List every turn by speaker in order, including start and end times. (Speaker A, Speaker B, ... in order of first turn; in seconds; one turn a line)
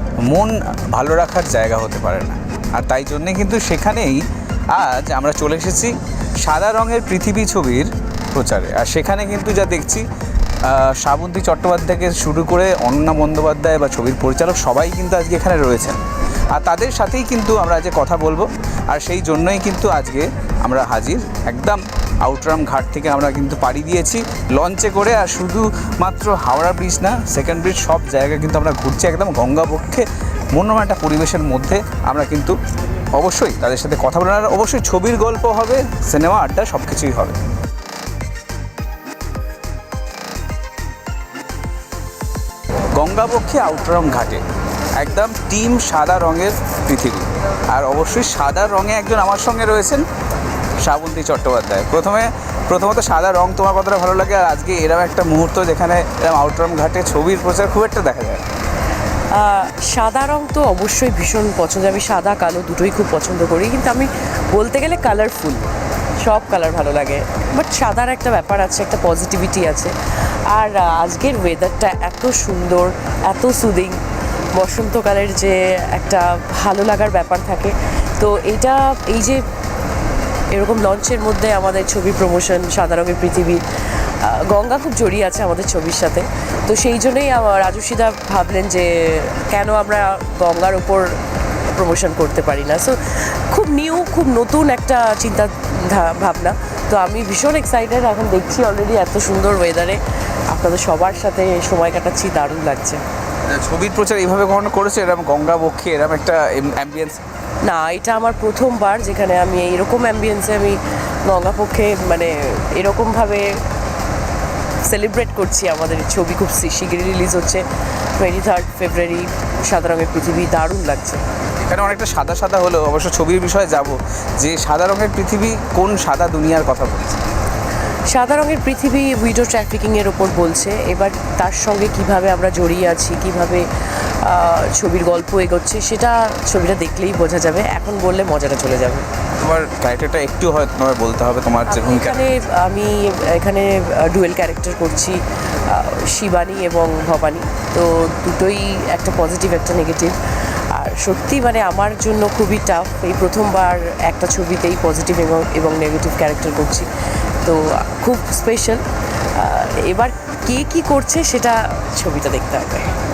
Speaker A: 0.3-10.1
Speaker A: 10.7-16.0
Speaker A: 16.5-32.5
Speaker A: 33.1-37.4
Speaker A: 43.0-44.4
Speaker A: 45.0-50.0
Speaker A: 50.8-58.5
Speaker B: 59.3-65.7
Speaker B: 66.2-74.0
Speaker B: 74.5-79.5
Speaker B: 80.5-83.6
Speaker B: 84.2-103.0
Speaker A: 103.5-107.2
Speaker B: 107.6-113.6
Speaker B: 114.8-121.2
Speaker A: 121.6-127.2
Speaker B: 128.1-139.1
Speaker A: 139.4-142.3
Speaker B: 141.7-150.2
Speaker B: 150.7-156.9
Speaker B: 157.4-158.8
Speaker B: 159.3-162.9